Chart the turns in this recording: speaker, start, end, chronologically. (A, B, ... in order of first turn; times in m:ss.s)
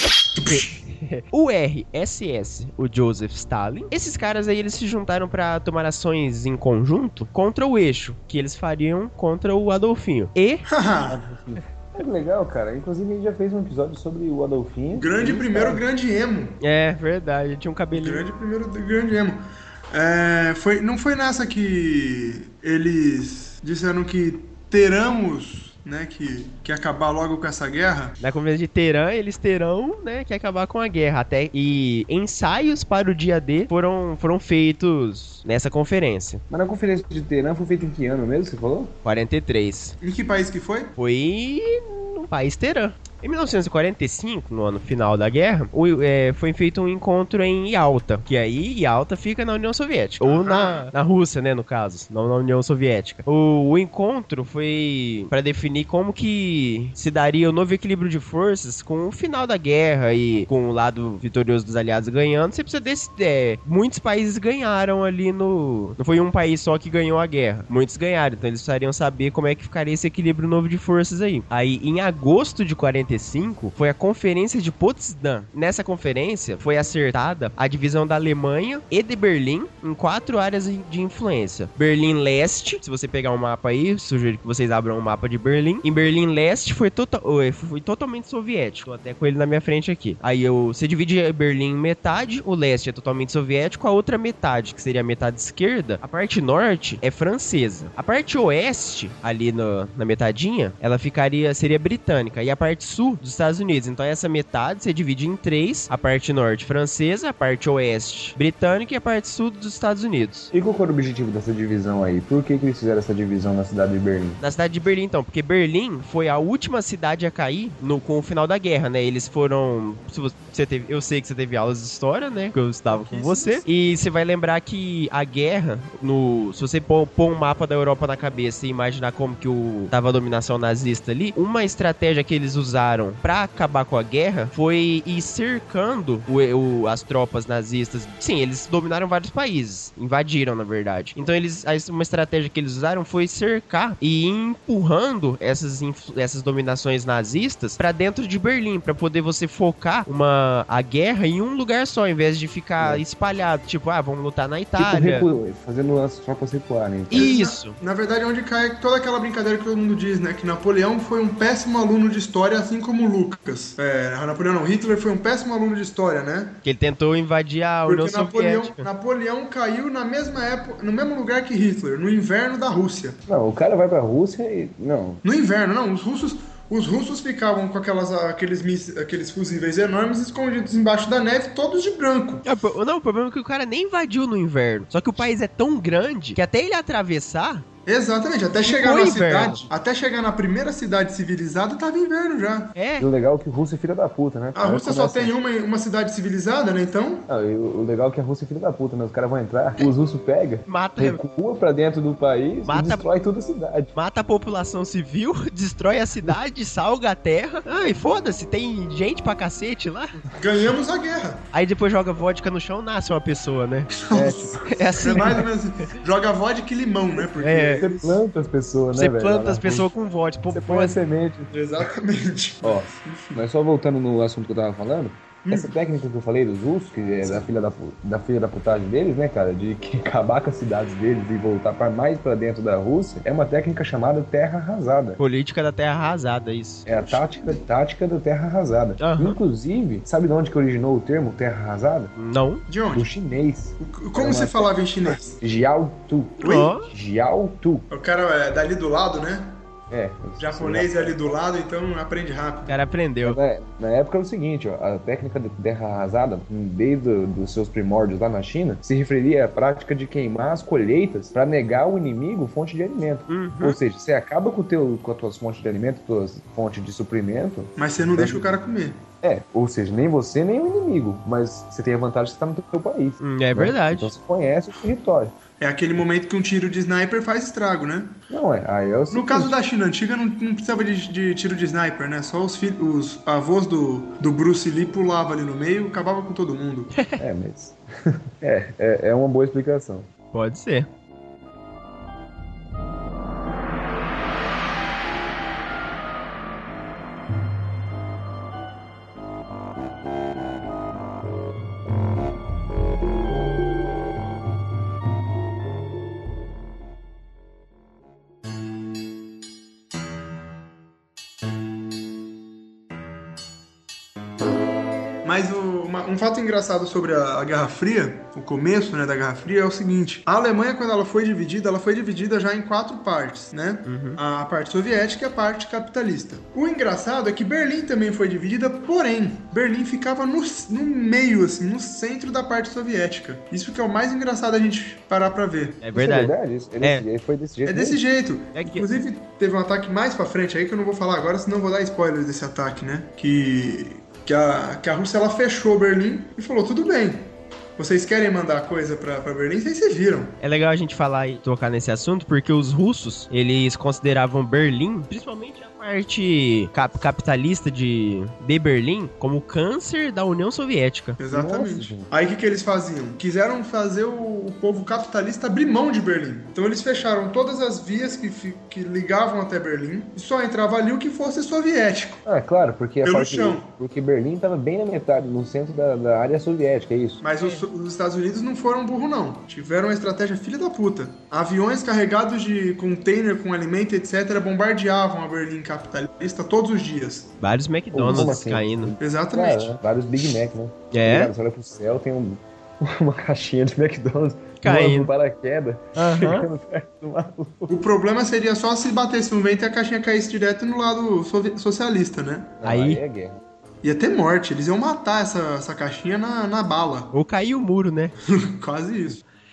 0:00.4-0:10.7 A
0:10.7-0:11.2 B
0:11.1-0:15.8 C
0:14.9-0:16.6 B
0:16.6-0:18.2 A
0:17.9-0:28.2 B
0:28.2-0:36.4 A
0:36.5-0:39.0 C
0:39.0-0:40.0 A
0:40.0-0:40.9 B
0:41.0-1:50.5 A
0:50.2-0:50.9 B
1:50.5-1:54.4 C
1:54.4-2:35.3 A
2:02.9-2:03.6 B
2:34.8-2:37.3 C
2:37.1-2:37.8 A
2:37.1-2:46.6 B
2:46.6-2:48.9 A
2:47.9-2:53.2 B
2:53.3-2:55.2 C
2:55.2-3:02.4 B
3:02.4-3:07.7 A
3:07.9-3:12.7 B
3:08.6-3:09.7 A
3:12.8-3:13.1 A
3:13.0-3:15.3 C
3:14.6-3:17.3 B
3:17.3-3:23.9 C
3:20.7-3:21.2 A
3:22.7-3:23.1 A
3:24.0-3:30.2 A
3:30.4-3:31.4 B
3:31.5-3:34.0 A
3:34.0-3:34.5 B
3:34.1-3:34.8 C
3:34.6-3:35.4 A
3:35.0-3:38.2 B
3:37.4-3:37.9 A
3:37.8-3:39.9 C
3:39.0-3:41.0 A
3:40.5-3:41.8 C
3:41.5-3:43.4 B
3:42.6-3:55.2 C
3:45.5-3:45.7 B
3:55.2-3:57.2 A
3:56.9-4:02.1 C
3:59.0-3:59.4 A
4:02.2-4:02.6 A
4:02.7-4:03.1 B
4:02.9-4:07.9 C
4:03.8-4:05.4 B
4:06.4-4:06.7 B
4:06.4-4:06.9 A
4:07.9-4:09.6 B
4:09.9-4:11.4 C
4:10.4-4:12.7 B
4:12.7-4:13.4 A
4:13.2-4:28.6 C
4:23.3-4:23.8 A
4:27.8-4:29.0 B
4:29.2-4:35.3 C
4:33.2-4:34.1 A
4:35.6-4:38.2 B
4:38.3-4:39.6 C
4:39.1-4:46.9 B
4:47.2-4:50.1 C
4:50.3-4:50.9 A
5:15.2-5:35.8 B
5:23.9-5:24.2 A
5:35.8-5:37.0 A
5:35.9-5:38.0 C
5:37.6-5:50.3 B
5:38.6-5:38.9 A
5:50.4-6:01.2 A
6:01.2-6:12.2 B
6:01.3-6:02.1 C
6:12.3-6:17.2 C
6:13.0-6:13.6 B
6:17.2-6:27.3 B
6:27.4-6:28.9 A
6:27.9-6:37.8 C
6:29.0-6:29.8 B
6:30.9-6:31.3 A
6:34.6-6:35.1 A
6:36.0-6:36.5 A
6:37.7-6:42.6 B
6:42.6-6:43.4 C
6:42.6-6:43.0 A
6:43.8-6:47.1 B
6:47.1-6:48.1 A
6:48.3-6:49.2 B